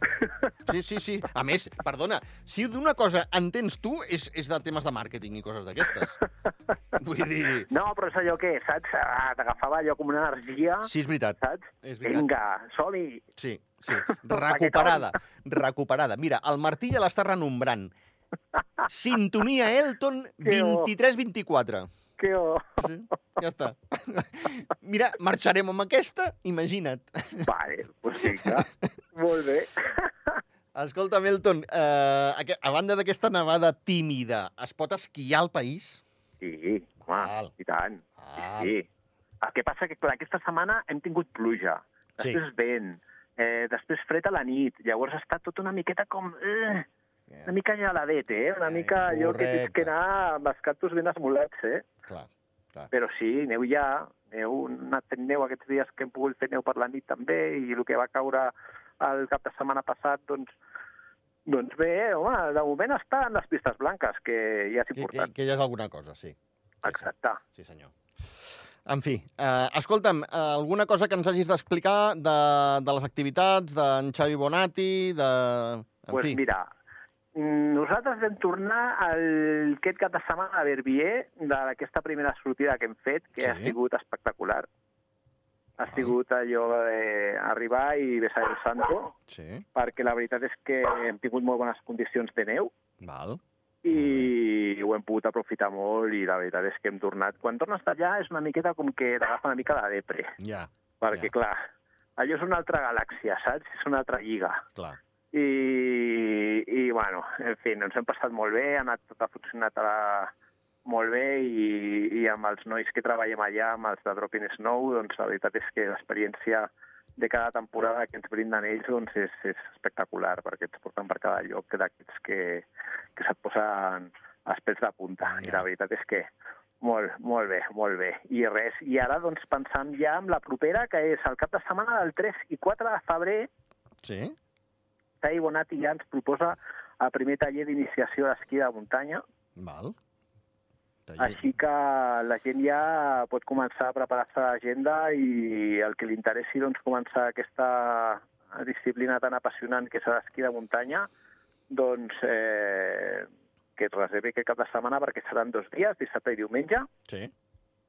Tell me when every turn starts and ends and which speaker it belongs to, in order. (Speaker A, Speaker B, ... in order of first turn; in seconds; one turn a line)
Speaker A: 0.2-0.5
Speaker B: 0.7-6.2
Speaker B: 6.9-7.7
Speaker A: 7.7-13.2
Speaker B: 10.8-12.2
Speaker B: 13.4-17.9
Speaker A: 13.9-15.1
Speaker B: 18.9-21.9
Speaker A: 20.4-20.9
Speaker A: 22.2-22.9
Speaker B: 22.8-27.5
Speaker A: 27.4-30.4
Speaker B: 28.2-28.9
Speaker B: 30.7-36.0
Speaker A: 36.4-38.8
Speaker B: 37.1-37.5
Speaker B: 38.2-38.7
Speaker A: 39.4-46.9
Speaker B: 47.3-47.5
Speaker A: 47.5-51.9
Speaker B: 48.6-49.9
Speaker B: 52.0-52.9
Speaker A: 52.9-60.5
Speaker A: 61.5-65.3
Speaker B: 65.0-67.9
Speaker A: 66.8-67.4
Speaker B: 68.9-76.4
Speaker A: 76.1-76.7
Speaker A: 77.3-84.7
Speaker B: 83.4-83.8
Speaker A: 85.8-89.2
Speaker B: 85.9-86.1
Speaker B: 89.3-89.6
Speaker A: 89.7-92.7
Speaker B: 93.0-93.4
Speaker A: 93.8-100.4
Speaker B: 93.9-94.3
Speaker B: 100.4-101.3
Speaker A: 101.0-101.6
Speaker A: 102.2-104.7
Speaker A: 105.3-110.3
Speaker A: 110.8-126.3
Speaker B: 125.2-125.7
Speaker A: 126.8-133.5
Speaker B: 134.0-134.3
Speaker A: 135.2-139.2
Speaker B: 139.6-139.9
Speaker B: 141.1-141.4
Speaker A: 141.2-151.1
Speaker A: 151.7-156.9